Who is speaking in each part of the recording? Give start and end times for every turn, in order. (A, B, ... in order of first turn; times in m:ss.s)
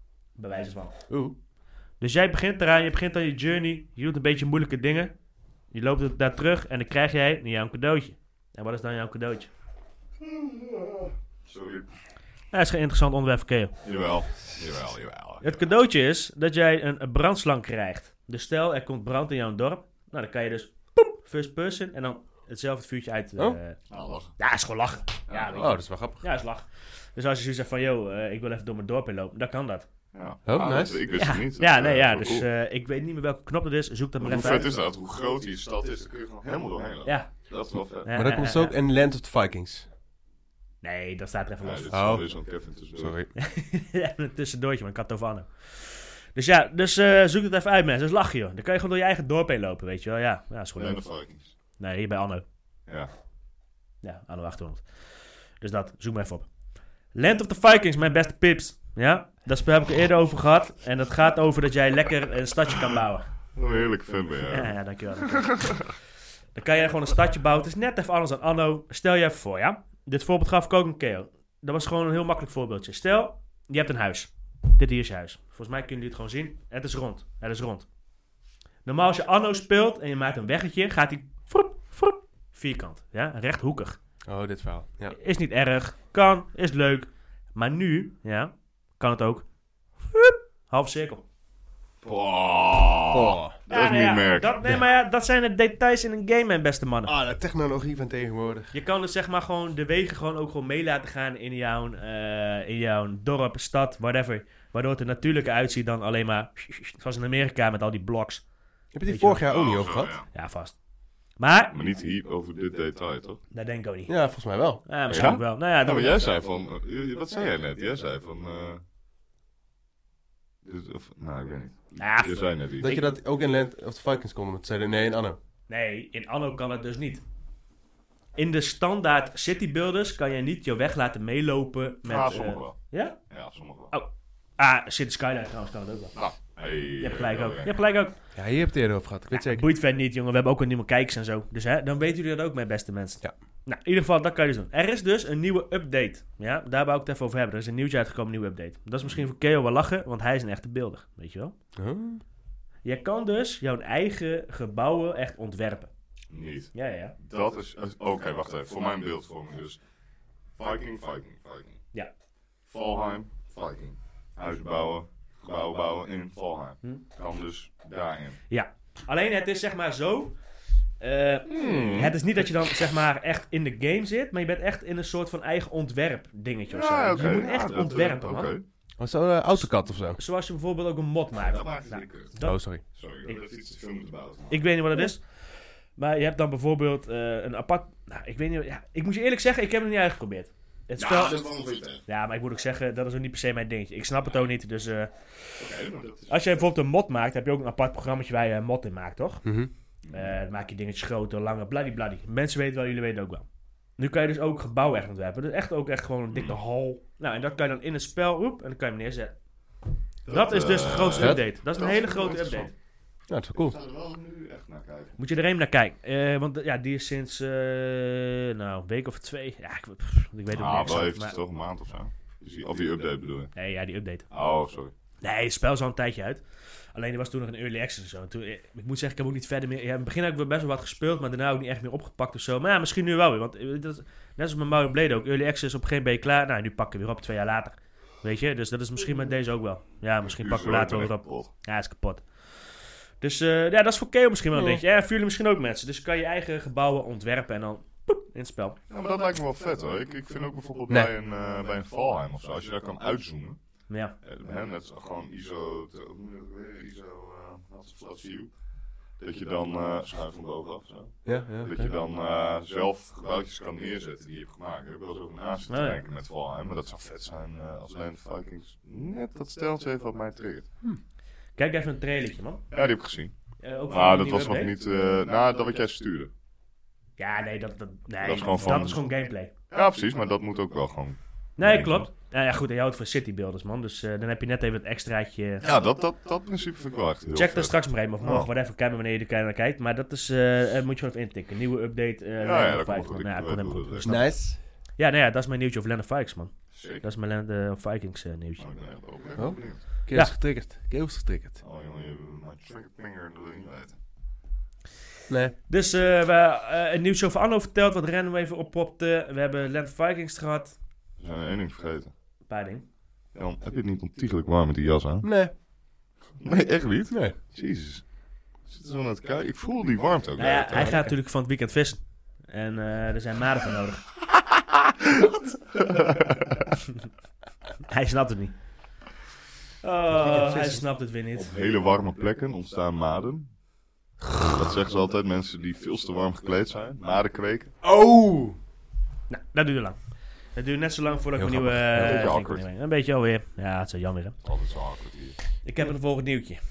0:00.4-0:01.0 A
0:01.1-0:01.4 B
0:02.0-0:05.1 A
0:05.7-0:09.5 A
0:10.2-0:11.8 C
0:12.5-0:13.7 A
0:13.8-0:15.6 C
0:15.4-0:23.8 A
0:23.9-0:24.4 C
0:24.4-0:29.9 A
0:25.3-0:25.8 C
0:25.6-0:26.2 B
0:30.1-0:32.4 C
0:30.4-0:31.0 B
0:31.2-0:34.7 A
0:34.2-0:38.1 C
0:37.0-0:37.3 A
0:38.0-0:38.7 A
0:38.1-0:39.9 B
0:40.8-0:42.1 A
0:41.6-0:43.2 C
0:41.9-0:42.3 B
0:43.0-0:43.3 B
0:43.4-0:51.0 A
0:50.8-0:51.5 C
0:51.8-0:52.4 A
0:54.0-0:55.0 A
0:55.6-0:56.5 A
0:57.1-1:03.3 A
1:03.6-1:05.9 C
1:04.5-1:05.8 A
1:06.5-1:17.9 A
1:18.8-1:24.0 A
1:24.3-1:25.2 B
1:25.1-1:29.4 A
1:30.1-1:31.2 A
1:32.0-1:34.6 C
1:33.1-1:33.6 B
1:33.7-1:37.1 A
1:37.0-1:38.7 B
1:38.7-1:48.4 A
1:48.9-1:50.1 B
1:49.1-1:49.4 A
1:49.5-1:50.3 C
1:50.3-1:50.8 A
1:51.4-1:51.7 A
1:51.7-1:53.4 C
1:53.5-1:54.1 A
1:54.1-1:54.8 B
1:54.8-1:56.3 A
1:55.1-1:58.8 C
2:00.6-2:03.0 C
2:02.0-2:02.5 A
2:02.8-2:05.4 B
2:05.7-2:07.2 A
2:08.4-2:13.2 A
2:12.0-2:13.9 C
2:13.9-2:16.2 A
2:16.1-2:17.7 C
2:17.0-2:18.2 A
2:18.3-2:19.6 B
2:19.3-2:31.5 A
2:31.8-2:32.2 B
2:32.8-2:35.9 A
2:36.3-2:39.8 C
2:36.7-2:37.2 A
2:40.6-2:41.8 C
2:42.7-2:48.4 C
2:48.5-2:50.4 A
2:51.0-2:58.6 A
2:51.5-2:52.2 C
2:56.7-2:58.6 C
2:59.0-3:00.2 B
2:59.6-3:02.6 A
3:01.4-3:02.4 C
3:02.4-3:02.8 B
3:02.9-3:04.7 C
3:04.5-3:05.4 A
3:06.0-3:11.4 A
3:11.0-3:12.0 C
3:12.0-3:15.6 A
3:15.6-3:16.6 C
3:16.3-3:19.4 A
3:19.4-3:19.7 B
3:20.0-3:20.3 C
3:20.1-3:23.4 A
3:24.0-3:29.4 A
3:26.3-3:26.6 C
3:30.2-3:32.7 C
3:30.3-3:32.7 A
3:31.2-3:31.4 B
3:33.3-3:33.8 B
3:33.5-3:35.2 C
3:35.2-3:41.4 A
3:40.5-3:43.5 C
3:43.5-3:44.2 A
3:44.3-3:44.9 C
3:45.2-3:46.4 A
3:46.9-4:08.8 A
4:00.2-4:01.5 C
4:04.5-4:04.8 B
4:08.9-4:13.6 C
4:13.9-4:14.2 A
4:14.2-4:18.5 C
4:19.2-4:30.6 C
4:21.2-4:21.9 B
4:25.7-4:26.0 A
4:31.6-4:32.6 A
4:32.7-4:33.3 C
4:33.6-4:34.7 A
4:33.9-4:36.3 C
4:37.2-4:39.5 A
4:38.2-4:39.0 C
4:39.7-4:42.1 C
4:41.6-4:45.7 A
4:45.6-4:48.5 C
4:47.3-4:54.3 A
4:52.4-4:54.2 C
4:54.0-4:54.6 B
4:55.0-4:58.6 A
4:56.7-4:57.0 C
4:58.6-4:59.8 C
4:59.4-5:01.6 B
5:01.6-5:04.0 C
5:05.3-5:05.5 B
5:05.7-5:10.8 A
5:11.2-5:12.1 C
5:12.5-5:12.8 A
5:13.3-5:15.3 C
5:15.2-5:15.5 B
5:16.4-5:18.0 C
5:17.1-5:17.4 B
5:18.6-5:20.9 C
5:20.4-5:24.1 A
5:20.7-5:21.1 B
5:25.0-5:26.6 C
5:27.8-5:28.6 A
5:29.8-5:31.5 A
5:30.1-5:30.8 B
5:31.3-5:33.5 C
5:34.3-5:37.7 C
5:37.8-5:38.6 B
5:39.3-5:40.0 A
5:40.5-5:44.4 A
5:41.3-5:42.3 B
5:42.0-5:42.6 C
5:44.4-5:45.4 C
5:45.6-5:46.6 A